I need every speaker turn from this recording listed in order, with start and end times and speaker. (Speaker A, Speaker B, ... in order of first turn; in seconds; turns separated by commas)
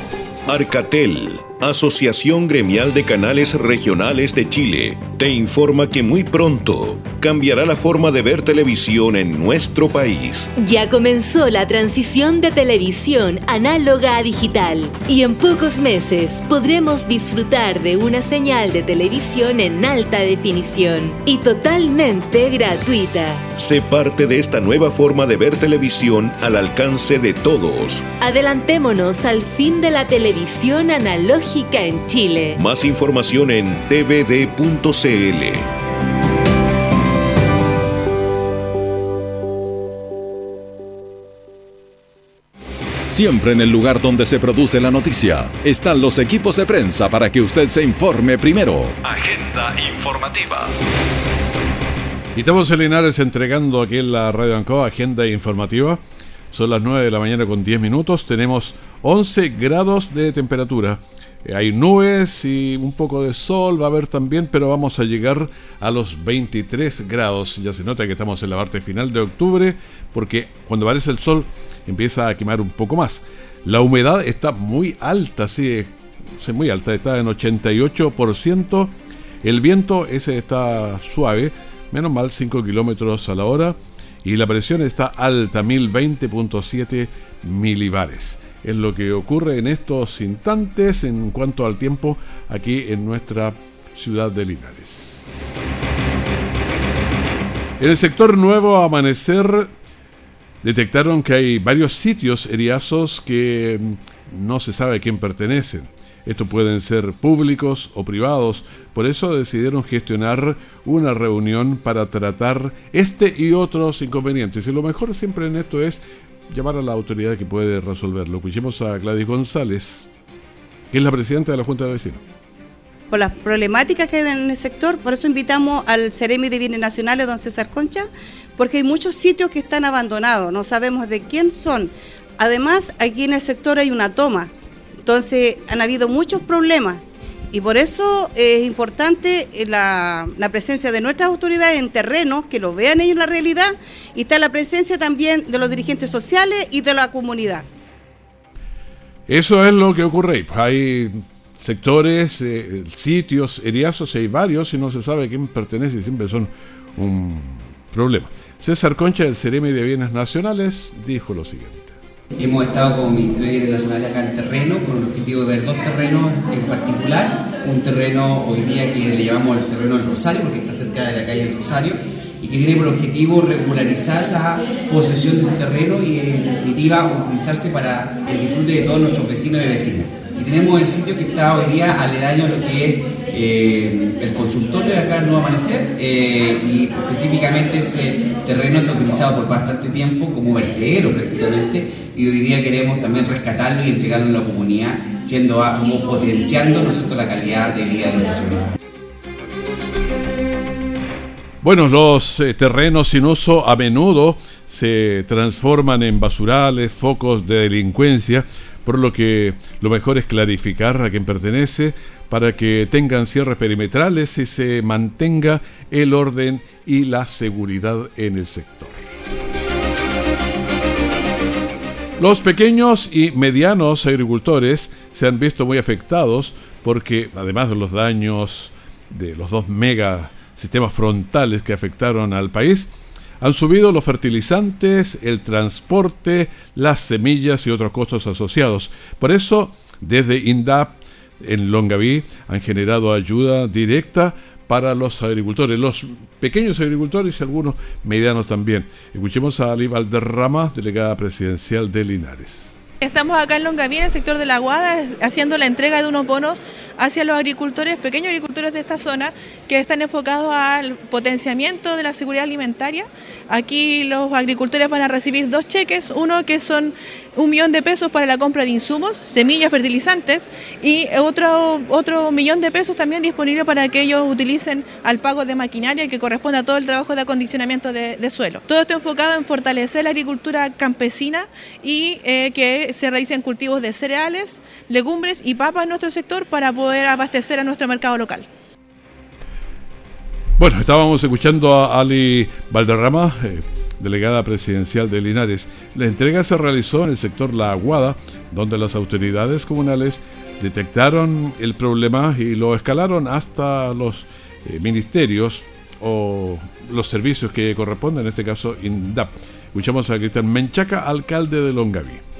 Speaker A: 0.5-10.5, Speaker B: 10.6-23.4, Speaker A: 23.6-28.1, Speaker B: 28.2-32.6, Speaker A: 32.5-35.7, Speaker C: 43.1-50.7, Speaker D: 52.4-95.3, Speaker D: 97.8-99.7, Speaker D: 100.6-120.1, Speaker D: 120.9-122.2, Speaker E: 123.1-134.5, Speaker E: 135.1-147.7, Speaker D: 149.3-162.0, Speaker F: 162.4-198.7, Speaker D: 201.6-219.0, Speaker D: 222.2-252.8, Speaker G: 253.0-288.5, Speaker D: 290.6-312.2